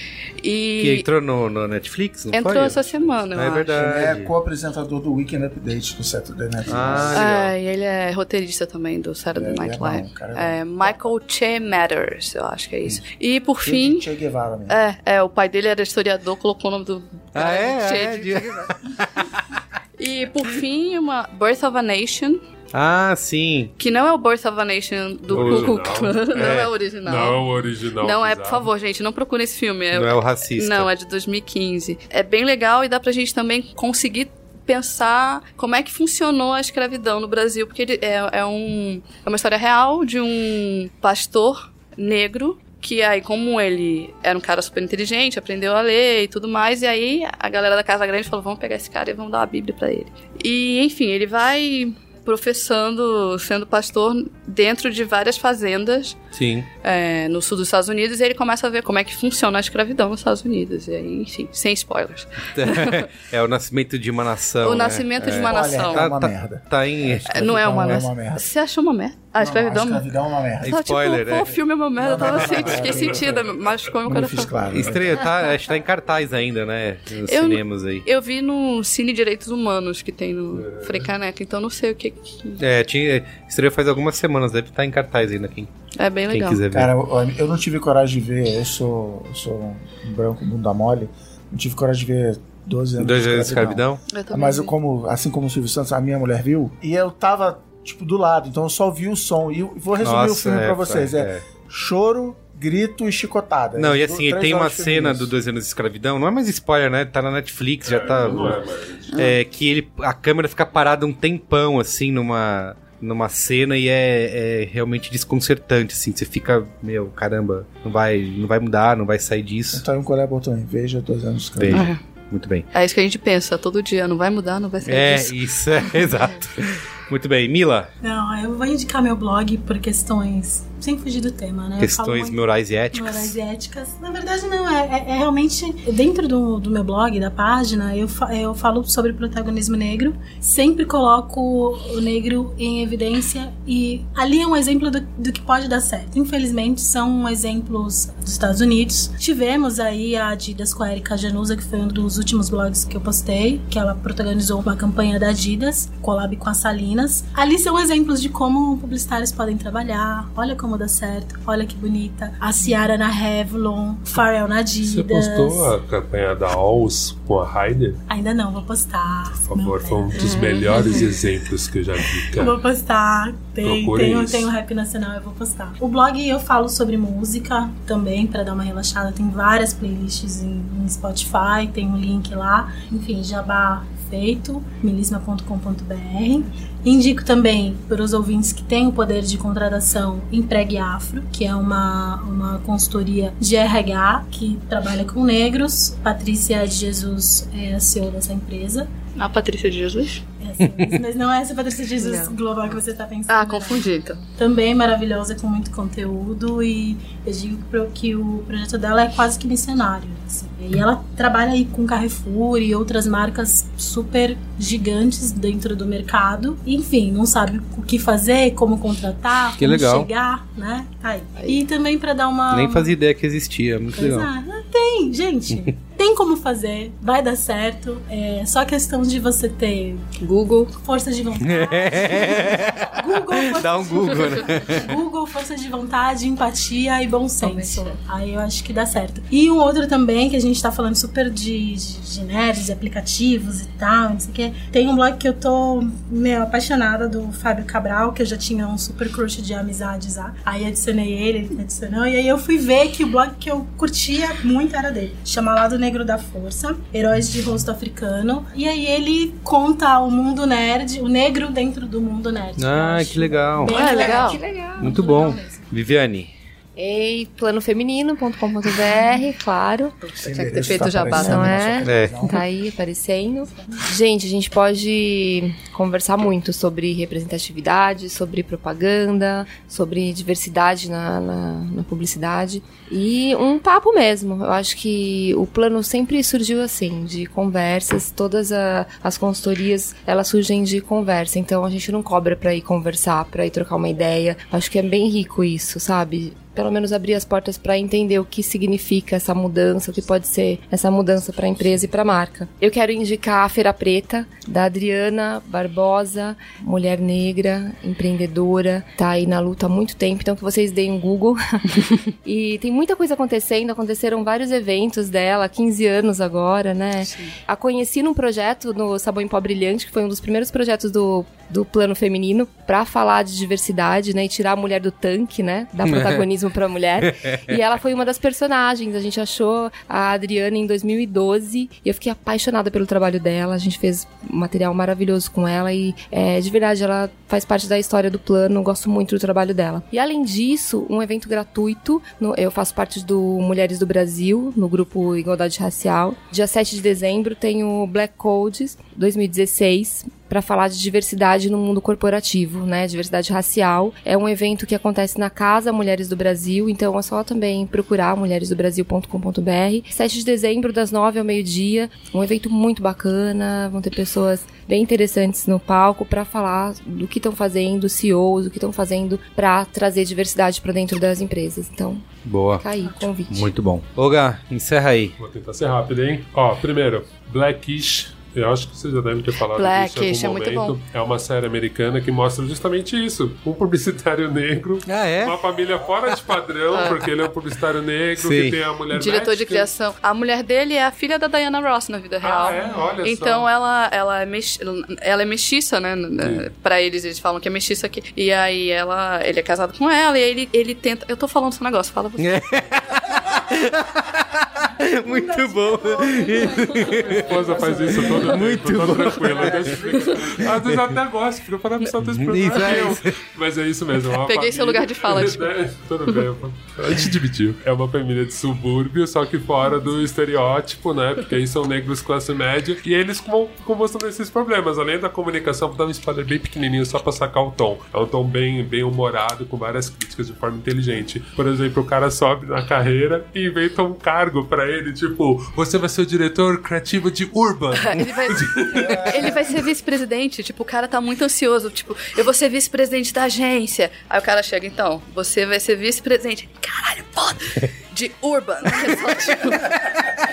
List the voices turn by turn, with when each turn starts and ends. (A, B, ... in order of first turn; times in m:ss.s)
0:00.4-0:01.1 A
0:00.8-0:04.3 B
0:02.3-0:03.7 A
0:03.7-0:07.3 C
0:06.7-0:07.5 B
0:07.1-0:14.1 A
0:09.4-0:11.1 C
0:13.6-0:14.8 C
0:14.7-0:18.7 A
0:17.3-0:19.6 B
0:20.0-0:22.4 A
0:22.7-0:23.7 B
0:23.8-0:27.4 A
0:25.3-0:28.7 D
0:25.3-0:25.7 B
0:28.0-0:56.2 A
0:29.9-0:30.9 B
0:56.3-0:56.7 B
0:56.8-1:03.0 A
1:02.5-1:08.0 B
1:04.6-1:06.1 A
1:05.2-1:08.5 C
1:07.3-1:10.1 A
1:09.4-1:10.8 C
1:10.6-1:11.6 B
1:10.7-1:14.5 A
1:12.0-1:13.3 C
1:12.2-1:13.5 D
1:14.0-1:15.1 C
1:14.7-1:18.1 B
1:17.2-1:22.6 A
1:20.5-1:21.1 D
1:22.6-1:25.7 B
1:26.0-1:26.6 A
1:26.3-1:26.9 B
1:26.7-1:45.3 C
1:33.0-1:34.0 B
1:34.1-1:34.7 A
1:40.0-1:41.4 B
1:43.8-1:48.6 B
1:47.8-1:49.2 D
1:49.1-1:59.8 B
1:59.7-2:01.9 C
2:01.6-2:02.7 B
2:01.7-2:02.0 A
2:02.7-2:05.4 A
2:04.8-2:07.9 B
2:06.0-2:06.3 A
2:08.0-2:45.7 E
2:11.8-2:13.4 B
2:44.8-2:48.0 D
2:48.1-2:51.4 E
2:49.4-2:52.6 D
2:50.1-2:51.0 A
2:52.0-3:18.9 E
2:53.6-2:54.5 D
3:19.2-3:20.2 A
3:20.4-3:43.0 E
3:20.7-3:21.0 B
3:22.0-3:22.4 A
3:23.3-3:24.2 A
3:39.6-3:40.1 B
3:41.4-3:41.6 A
3:42.5-3:44.3 B
3:44.0-3:50.1 E
3:50.2-3:50.8 A
3:50.7-4:25.6 E
3:51.4-3:54.9 B
3:57.4-3:58.0 A
4:22.6-4:23.9 B
4:23.7-4:24.4 A
4:23.7-4:25.0 F
4:24.8-4:26.3 B
4:26.8-4:30.0 F
4:30.1-4:31.8 A
4:30.2-4:32.4 C
4:30.9-6:12.1 F
4:31.8-4:32.4 B
5:17.1-5:17.3 A
5:25.9-5:26.3 B
5:27.0-5:27.6 B
6:12.2-6:12.6 B
6:12.6-6:13.5 F
6:13.3-6:15.2 B
6:15.2-6:29.7 D
6:19.6-6:20.8 A
6:24.9-6:25.4 B
6:26.7-6:27.1 A
6:28.2-6:28.6 B
6:28.9-6:42.3 A
6:32.2-6:33.5 D
6:36.2-6:36.5 D
6:42.2-6:50.9 B
6:45.1-6:47.2 E
6:46.8-7:19.4 D
6:47.5-6:48.3 A
6:49.9-6:50.3 A
6:52.0-6:53.2 B
6:54.2-6:55.6 A
7:17.8-7:30.0 A
7:18.8-7:19.4 B
7:28.7-7:29.3 B